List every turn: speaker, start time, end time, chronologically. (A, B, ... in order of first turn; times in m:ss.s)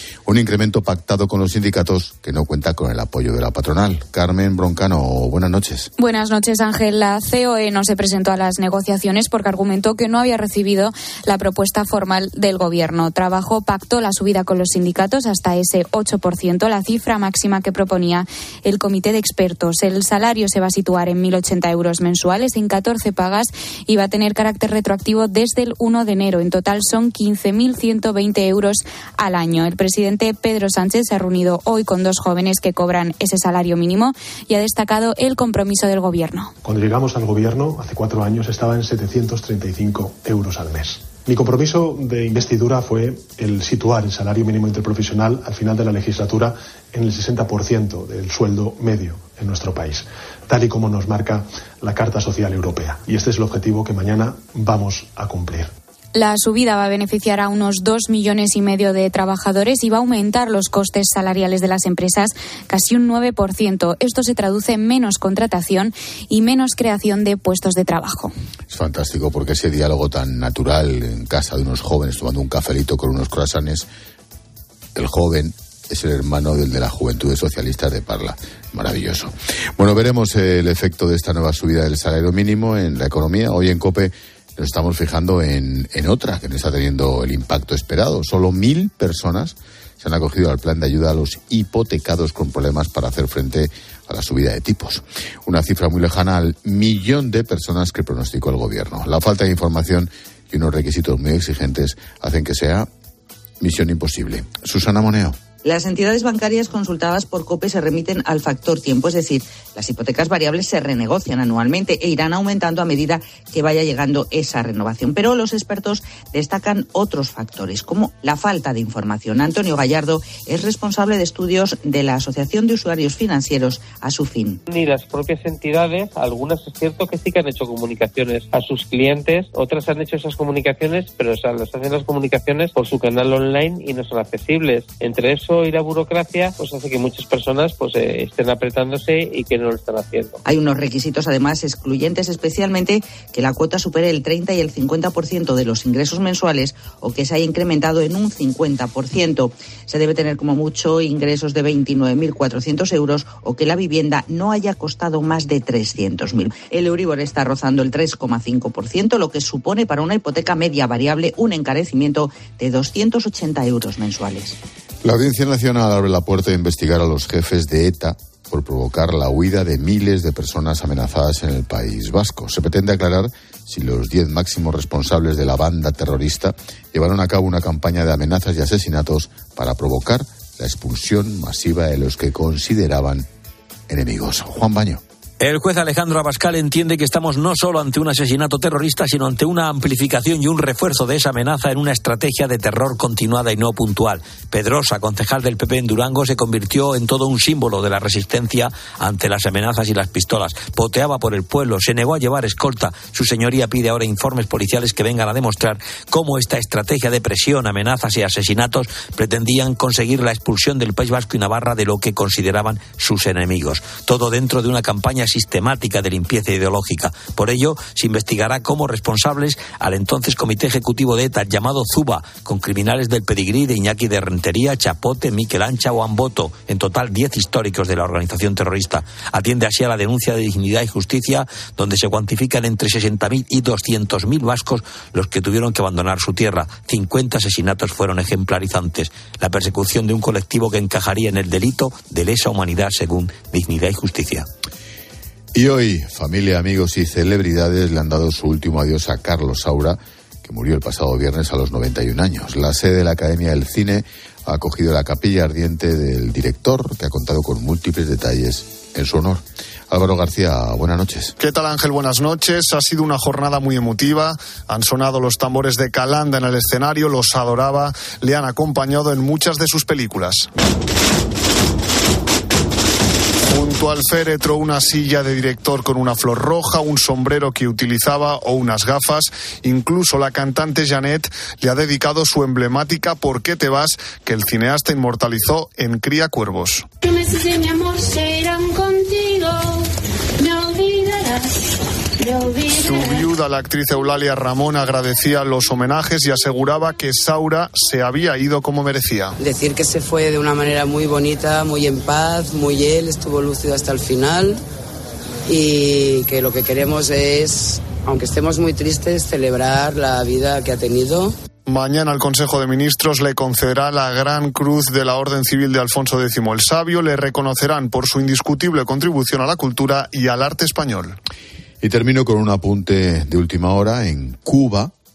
0:00.2-0:05.9 A
0:06.0-0:36.5 B
0:36.6-0:55.7 C
0:56.1-1:08.3 B
1:08.7-1:13.8 A
1:15.0-1:42.9 A
1:43.6-1:45.4 A
1:45.6-2:04.6 D
2:04.7-2:20.4 E
2:20.4-2:44.5 D
2:45.0-3:03.2 A
3:03.9-3:05.0 A
3:05.4-4:04.5 F
4:05.5-4:21.4 A
4:21.4-4:30.5 G
4:33.5-4:46.9 G
4:52.6-4:59.4 G
4:59.4-5:04.6 H
5:05.5-5:11.3 H
5:11.7-5:21.2 G
5:21.8-5:24.9 A